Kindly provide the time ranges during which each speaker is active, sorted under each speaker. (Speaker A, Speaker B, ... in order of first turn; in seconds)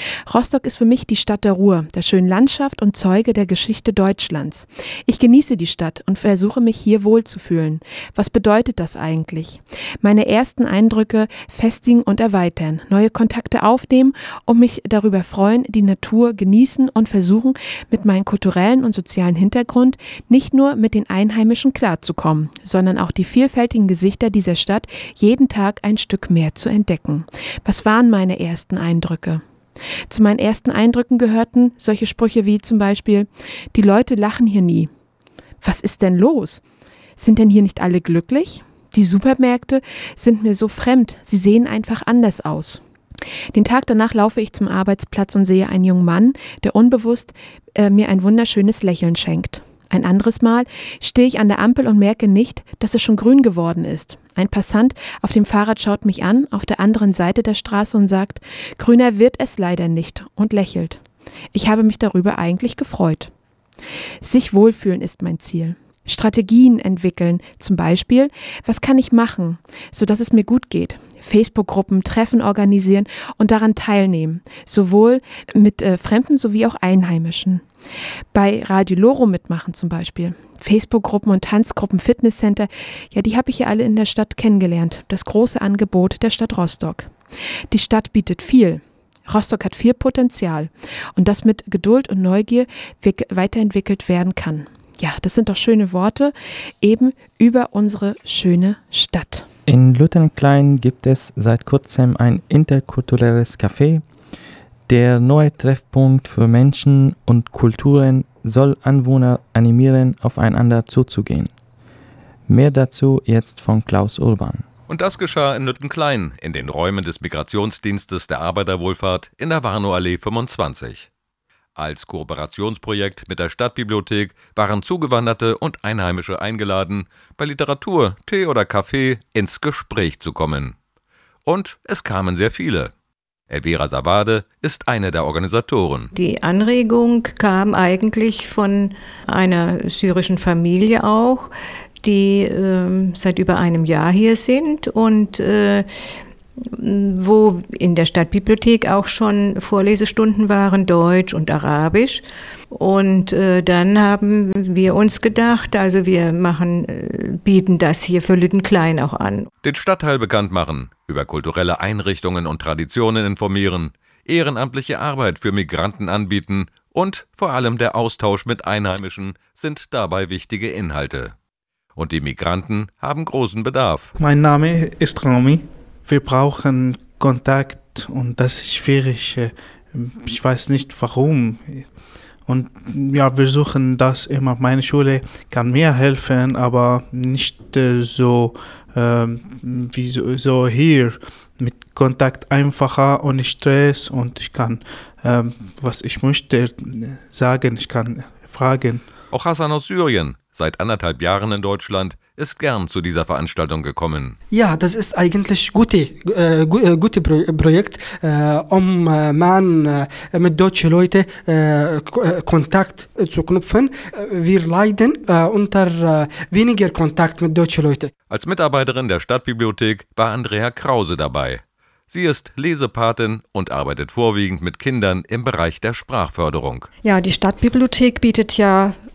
Speaker A: 0.3-29.4, 30.1-34.9, 35.6-36.6, 37.2-42.8, 43.5-61.0, 61.5-63.3, 64.2-77.7, 78.3-87.1, 87.7-99.5
Speaker B: 99.7-104.0, 104.9-111.5, 112.5-114.7
Speaker C: 114.9-121.1, 121.8-130.8, 131.4-132.9, 133.5-136.1, 159.6-171.3, 171.9-174.1, 199.3-204.3, 218.3-226.9
Speaker D: 136.1-159.5
Speaker E: 174.2-199.0
Speaker F: 204.5-218.1
Speaker G: 227.0-229.0